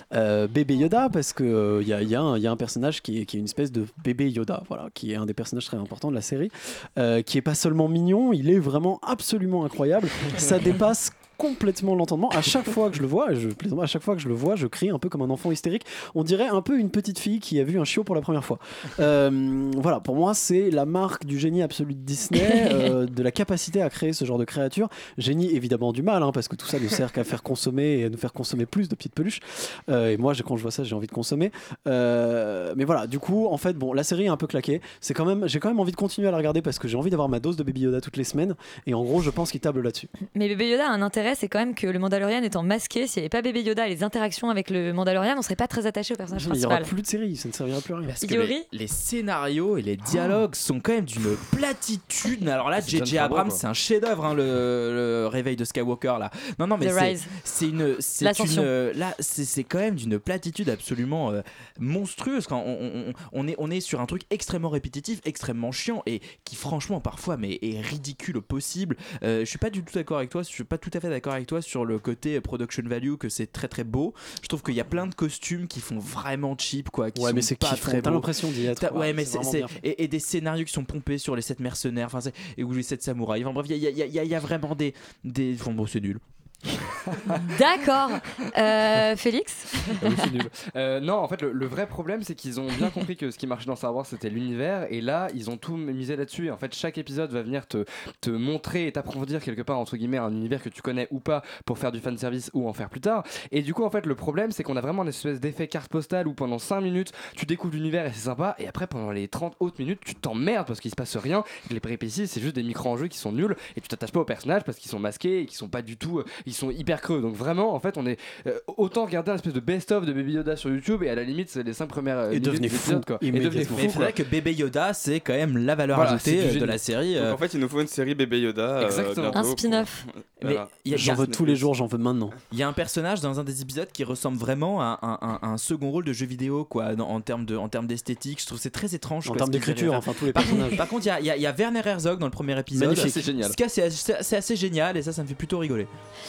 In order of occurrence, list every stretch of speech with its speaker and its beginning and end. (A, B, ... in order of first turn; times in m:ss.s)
0:00.1-0:40.1 A
0:40.3-0:46.9 B
0:46.3-0:48.2 A
0:48.1-1:26.2 C
0:48.2-0:48.7 B
0:52.8-0:53.6 D
0:56.8-0:57.4 B
0:58.2-0:58.7 B
1:17.2-1:19.8 A
1:27.5-1:30.0 B
1:30.0-2:04.1 D
2:02.3-2:04.1 A
2:03.7-2:07.4 C
2:05.9-2:06.8 D
2:07.2-2:11.6 E
2:08.8-2:09.5 D
2:09.4-2:10.1 B
2:10.4-2:11.4 C
2:10.8-2:12.4 A
2:12.5-2:25.9 C
2:19.2-2:20.9 A
2:22.8-2:23.2 A
2:22.8-2:23.6 D